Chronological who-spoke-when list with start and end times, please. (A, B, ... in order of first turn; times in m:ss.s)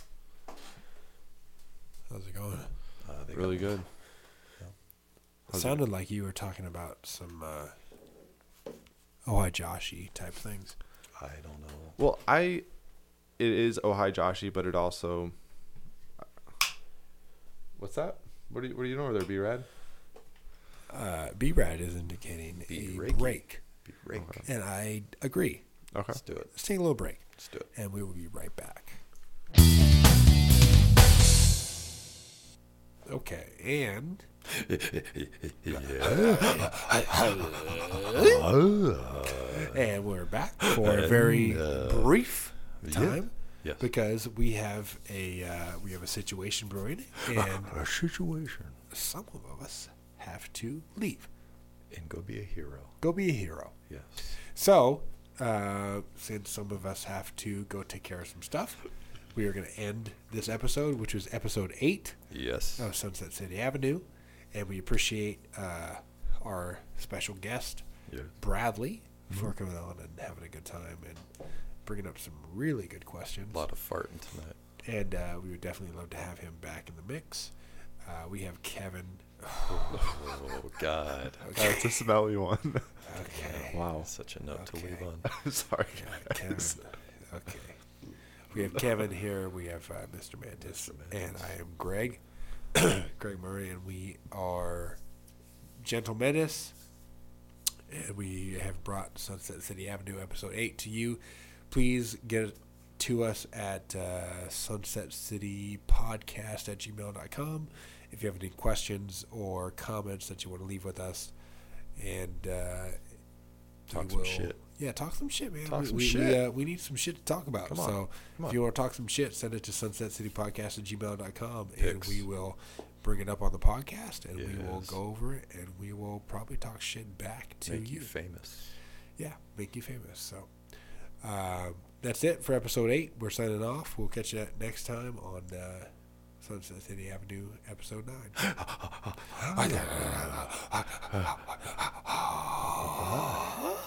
0:02.1-0:02.7 A
0:03.0-0:03.8 B
0:03.3-0:03.9 C
0:05.5-0:05.8 C
0:05.5-0:07.7 A
0:09.2-0:10.7 A
0:11.2-0:12.0 B
0:12.0-0:12.6 C
0:13.4-0:15.3 C
0:17.8-0:19.7 C
0:20.9-0:23.6 A
0:22.7-0:24.5 B
0:24.1-0:24.4 C
0:24.4-0:25.6 A
0:25.9-0:26.2 C
0:26.1-0:26.5 B
0:26.5-0:29.0 A
0:27.4-0:27.7 B
0:33.0-0:34.3 A
0:34.5-0:36.9 B
0:36.0-0:38.5 A
0:37.5-0:39.8 B
0:39.5-0:47.7 A
0:40.6-0:42.2 B
0:42.8-0:43.9 B
0:47.3-0:48.8 B
0:48.9-0:51.3 A
0:51.9-0:53.0 B
0:53.0-0:53.7 A
0:53.9-0:54.2 B
0:54.3-1:02.2 A
1:02.3-1:02.9 B
1:02.8-1:07.8 A
1:08.1-1:08.3 B
1:08.4-1:11.3 A
1:11.8-1:13.6 A
1:13.5-1:14.6 B
1:14.8-1:17.5 A
1:18.0-1:20.2 A
1:19.7-1:21.5 B
1:21.4-1:21.9 A
1:21.6-1:23.0 C
1:23.0-1:23.8 A
1:23.3-1:25.3 B
1:23.7-1:24.1 C
1:24.6-1:25.0 A
1:25.2-1:26.8 C
1:25.9-1:27.8 A
1:28.5-1:32.2 A
1:30.6-1:31.3 B
1:32.7-1:35.0 A
1:35.8-1:36.7 A
1:37.9-1:51.3 A
1:52.0-1:53.0 A
1:53.9-2:08.1 A
1:53.9-1:54.6 B
1:55.7-1:56.4 B
1:57.7-1:58.6 B
2:01.8-2:02.2 B
2:04.3-2:05.0 B
2:07.6-2:08.7 B
2:09.2-2:10.5 A
2:11.2-2:18.4 A
2:19.4-2:23.8 A
2:19.5-2:19.9 B
2:22.9-2:23.4 B